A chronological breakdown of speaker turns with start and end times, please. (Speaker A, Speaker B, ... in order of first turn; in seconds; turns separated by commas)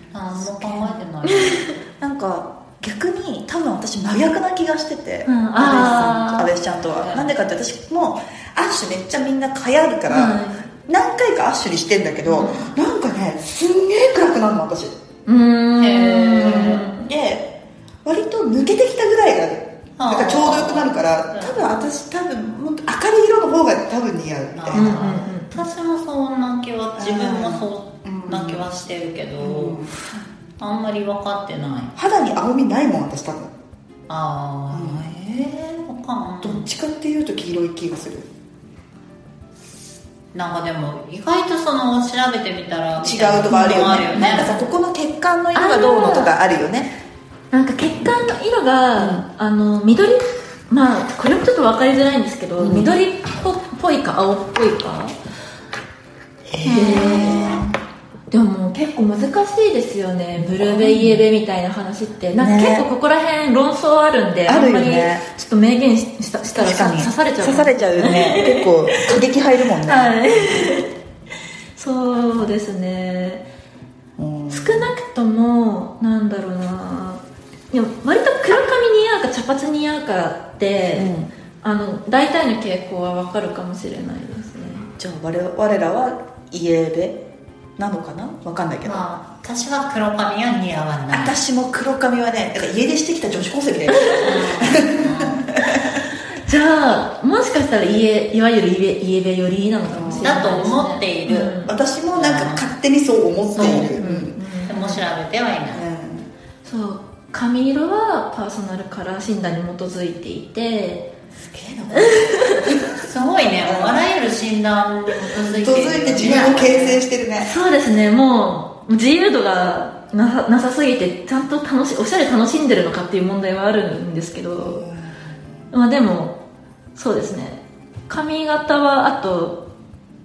Speaker A: 0.1-1.8, Speaker B: 0.3-1.0, Speaker C: 1.2-1.7, Speaker B: 2.0-14.9, Speaker C: 5.3-6.5, Speaker A: 7.0-7.3, Speaker C: 10.1-10.7, Speaker A: 12.3-12.7, Speaker C: 15.3-17.1, Speaker A: 15.8-16.9, Speaker B: 16.4-17.5, Speaker B: 18.1-25.3, Speaker A: 20.0-21.7, Speaker A: 24.6-30.0, Speaker C: 24.7-25.6, Speaker B: 27.0-28.7, Speaker B: 29.4-29.9, Speaker A: 30.6-31.9, Speaker B: 32.0-33.5, Speaker A: 34.1-36.7, Speaker B: 34.7-35.1, Speaker B: 36.4-38.3, Speaker A: 40.3-44.5, Speaker B: 43.0-46.9, Speaker C: 43.5-44.5, Speaker C: 45.5-46.3, Speaker C: 47.5-55.1, Speaker B: 49.0-49.2, Speaker B: 52.6-52.9, Speaker B: 56.5-57.8, Speaker C: 56.6-57.6, Speaker C: 58.3-69.2, Speaker B: 60.4-61.2, Speaker B: 62.4-62.9, Speaker B: 64.5-65.2, Speaker B: 66.5-70.2, Speaker C: 69.8-70.9, Speaker C: 71.8-73.5, Speaker B: 74.2-74.9, Speaker C: 74.5-84.9, Speaker B: 81.0-81.3, Speaker B: 85.0-87.2, Speaker B: 87.8-89.1, Speaker A: 88.8-91.4, Speaker B: 91.1-96.0, Speaker A: 94.2-95.5, Speaker C: 96.4-101.8, Speaker B: 99.9-100.5, Speaker A: 100.2-101.6, Speaker B: 101.7-104.4, Speaker A: 102.1-102.7, Speaker A: 103.5-104.0, Speaker C: 103.6-105.0, Speaker A: 104.7-105.9, Speaker B: 105.7-106.3, Speaker C: 106.6-111.1, Speaker B: 111.4-113.0, Speaker C: 111.9-112.7, Speaker A: 113.0-117.0, Speaker B: 113.6-114.0, Speaker B: 115.6-117.5, Speaker C: 117.4-124.8, Speaker B: 124.6-125.4, Speaker C: 125.7-126.4, Speaker C: 127.0-129.6